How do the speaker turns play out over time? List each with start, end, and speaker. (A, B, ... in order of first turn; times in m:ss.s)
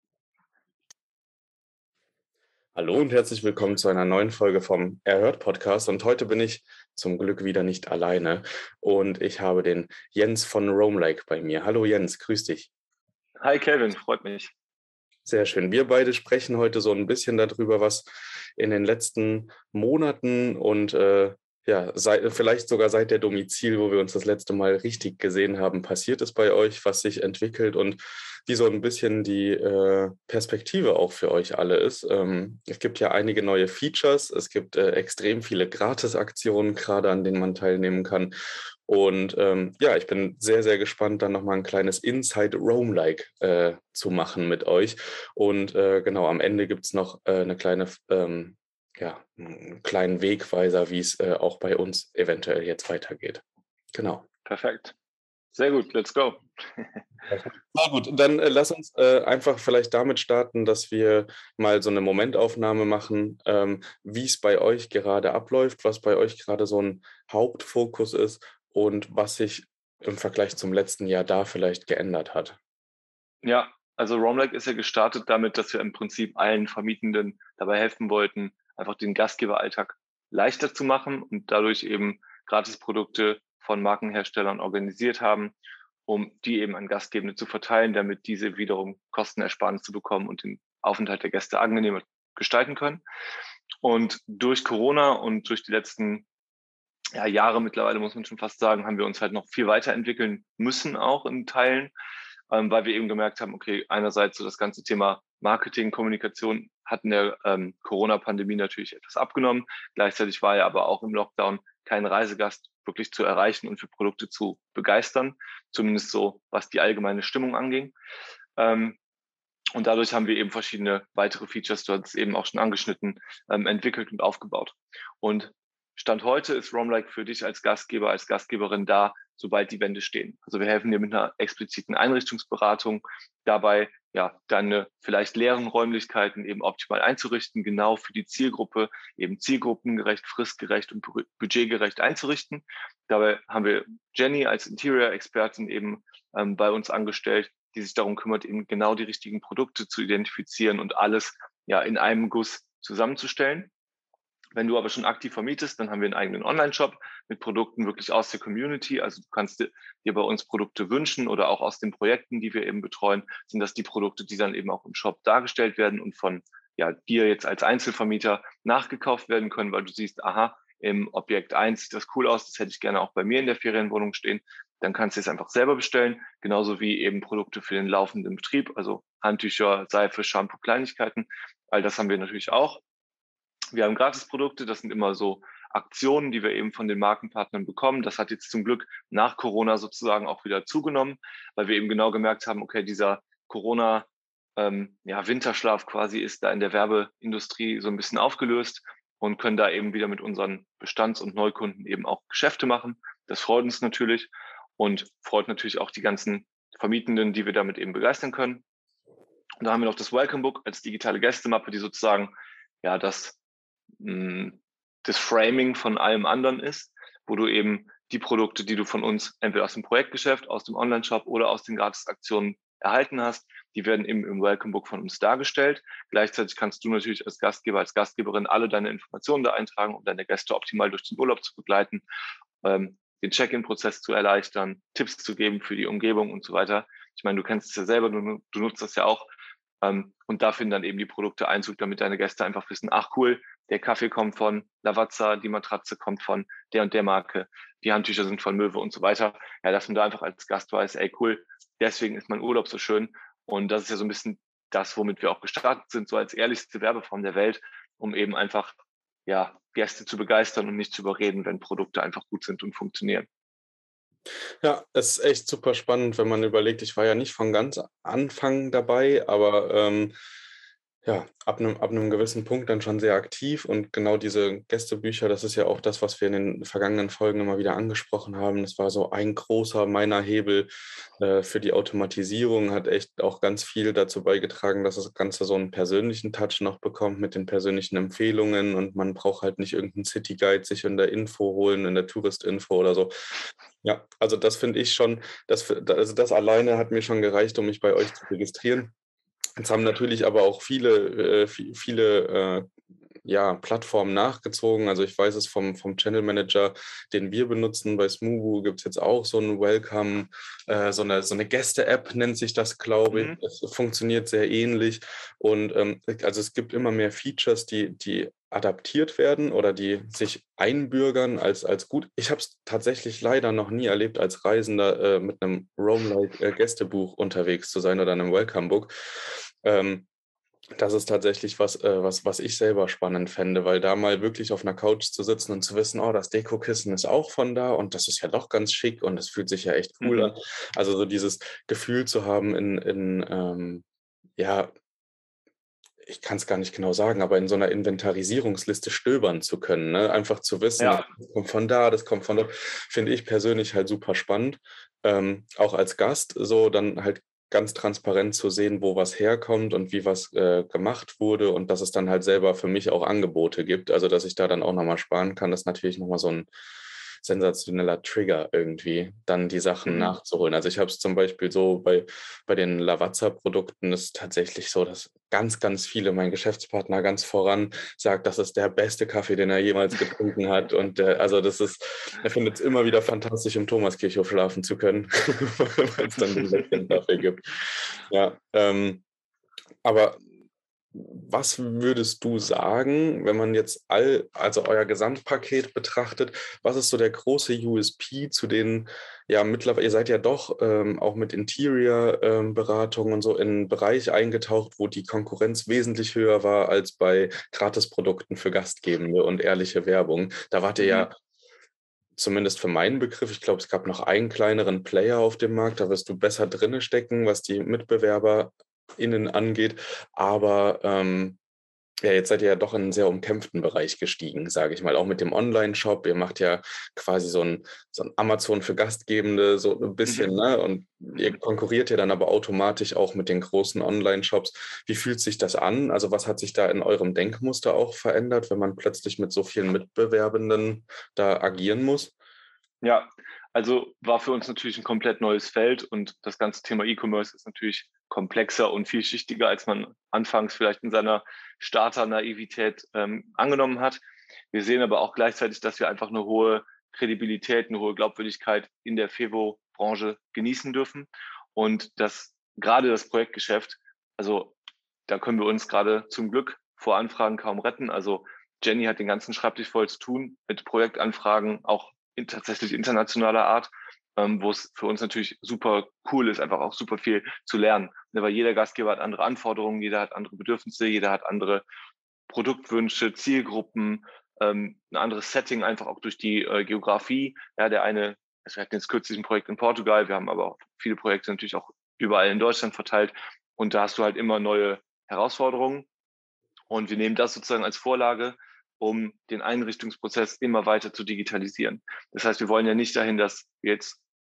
0:02.8-0:12.7 A
0:13.4-0:14.5 B
0:15.2-0:38.3 A
0:38.9-0:54.3 A
0:54.4-0:54.9 B
0:55.5-0:57.0 B
0:57.3-1:12.6 A
1:13.4-1:25.5 B
1:26.1-1:33.0 B
1:33.8-1:36.2 B
1:37.1-1:41.9 B
1:42.5-1:57.9 B
1:58.6-1:59.0 B
1:59.7-2:33.7 B
2:34.6-3:02.8 B
3:03.7-3:28.6 B
3:29.6-3:32.3 B
3:32.8-3:33.4 B
3:34.0-3:52.0 B
3:52.6-3:59.3 B
3:59.8-4:23.3 B
4:24.6-4:30.1 A
4:31.0-4:53.1 A
4:53.8-4:58.9 A
4:59.6-5:02.7 A
5:03.2-5:30.1 A
5:13.1-5:13.4 B
5:30.8-5:43.8 A
5:40.0-5:40.3 B
5:44.4-5:44.7 A
5:46.0-6:06.5 A
5:50.8-5:51.1 B
6:07.2-6:29.0 A
6:09.9-6:10.1 B
6:29.8-6:30.2 A
6:30.9-6:51.2 A
6:50.8-6:51.1 B
6:52.2-7:01.4 A
7:02.0-7:22.1 A
7:10.0-7:10.3 B
7:22.8-7:34.0 B
7:34.5-7:44.5 B
7:45.1-8:01.6 B
8:02.3-8:15.9 B
8:16.7-8:24.0 B